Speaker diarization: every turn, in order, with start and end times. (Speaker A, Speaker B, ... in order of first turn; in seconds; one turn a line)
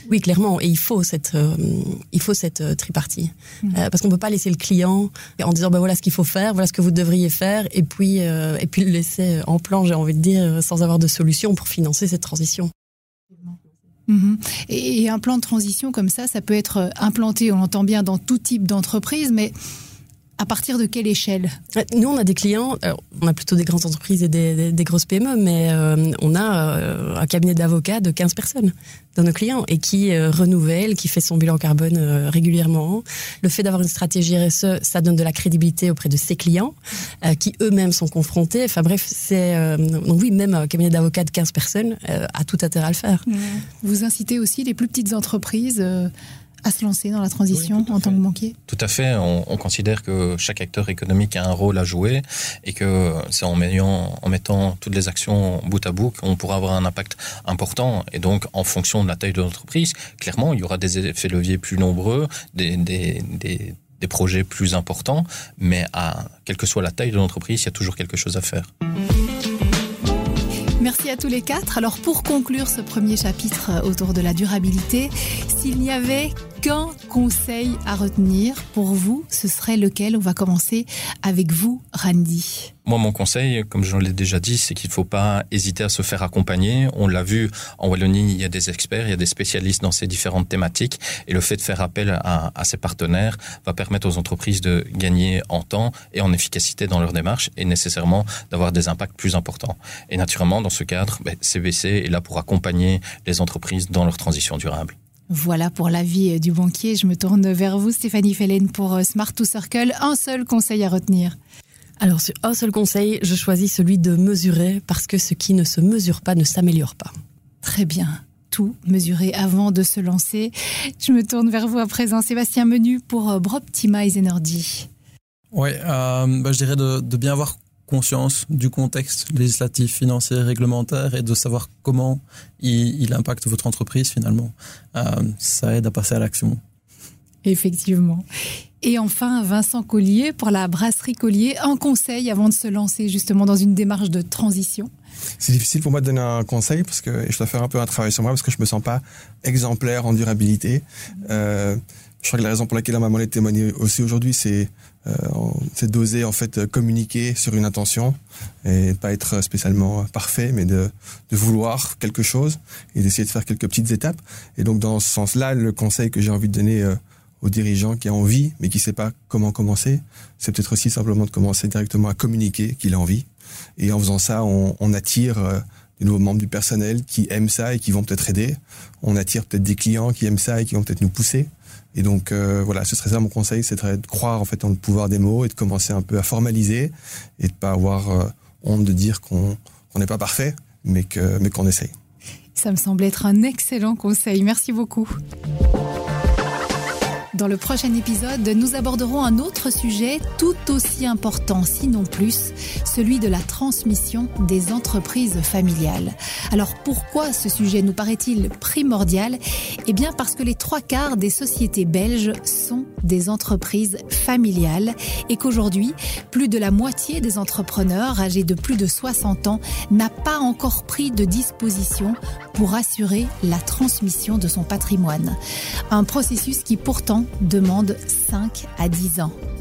Speaker A: 0.1-12.7
Speaker B: 14.1-19.5
Speaker B: 20.4-21.6
Speaker A: 21.8-43.2
Speaker B: 43.3-46.1
Speaker B: 46.6-48.5
Speaker C: 48.7-68.7
Speaker B: 70.8-82.7
Speaker C: 82.8-105.0
Speaker B: 105.3-111.4
Speaker A: 112.0-117.1
Speaker B: 117.6-124.9
Speaker D: 125.5-136.6
Speaker B: 137.4-138.2
Speaker B: 138.8-144.9
Speaker E: 145.4-173.3
Speaker E: 173.8-191.9
Speaker B: 192.6-195.2
Speaker B: 197.3-225.4
Speaker B: 225.9-229.4